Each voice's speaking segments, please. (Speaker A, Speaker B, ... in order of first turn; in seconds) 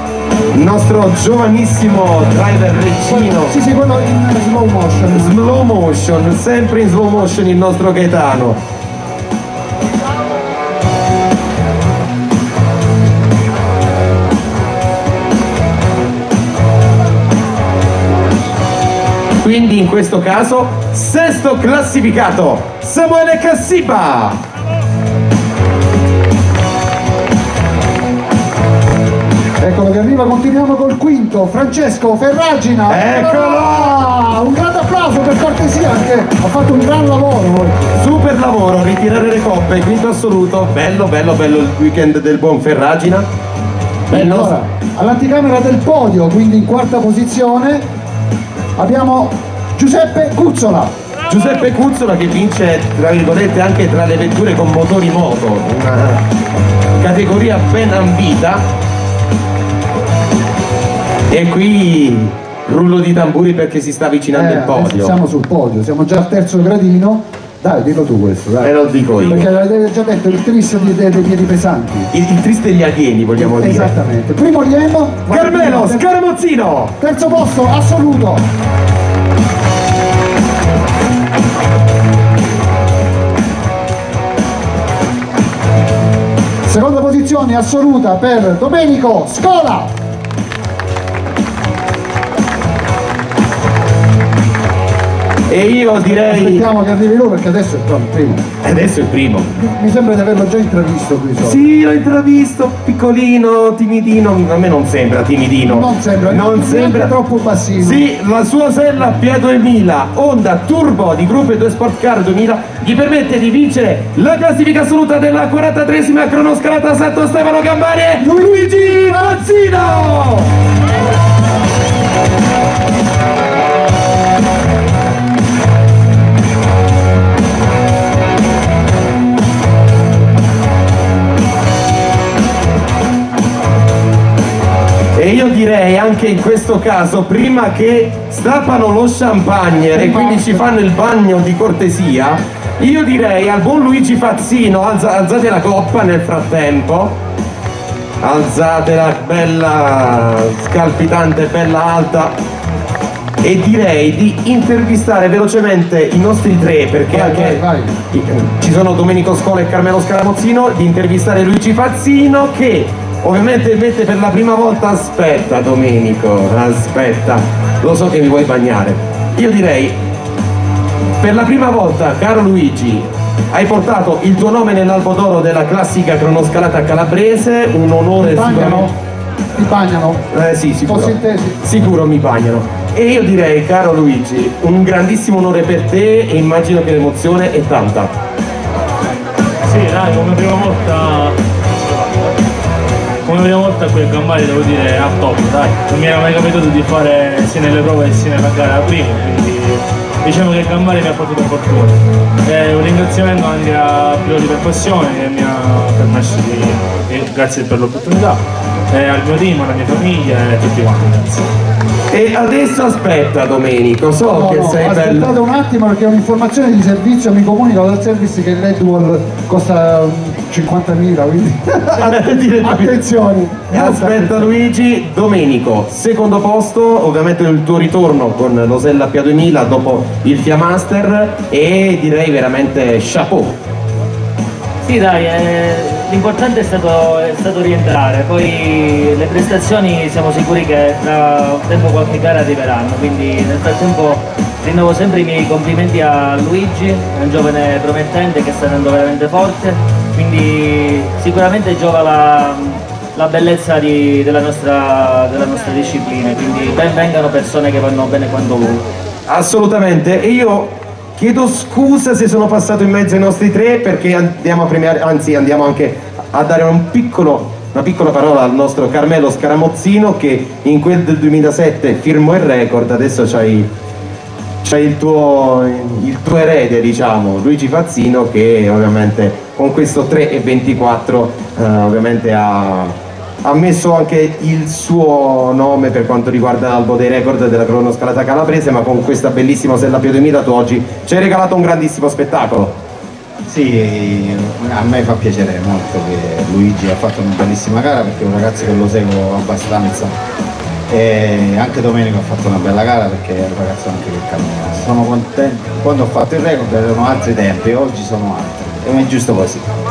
Speaker A: 0.5-3.6, 5.1-8.6, 19.4-24.4, 32.9-34.0, 38.0-43.3, 44.1-44.5, 51.3-56.2, 57.0-58.7, 61.3-65.2, 68.6-69.5, 72.1-73.9, 75.3-77.0, 95.5-96.7, 98.6-99.7, 101.4-107.1, 107.8-120.5, 135.2-147.2, 148.2-152.3, 153.4-170.0, 171.2-178.9, 180.3-188.1, 212.1-215.3, 221.9-223.0, 223.7-233.6, 259.3-273.7, 274.6-292.8
Speaker B: 3.1-5.6, 29.6-38.0, 44.1-47.9, 48.8-50.9, 64.3-72.1, 73.4-76.1, 77.0-78.4, 86.7-89.9, 96.1-98.5, 99.7-101.6, 105.7-108.0, 118.2-119.4, 139.9-140.7, 157.1-158.0, 178.2-179.0, 179.6-180.3, 180.8-181.6, 214.3-224.5
Speaker C: 189.7-192.3, 193.2-211.5
Speaker D: 234.8-258.9
Speaker E: 293.5-300.2, 300.9-309.7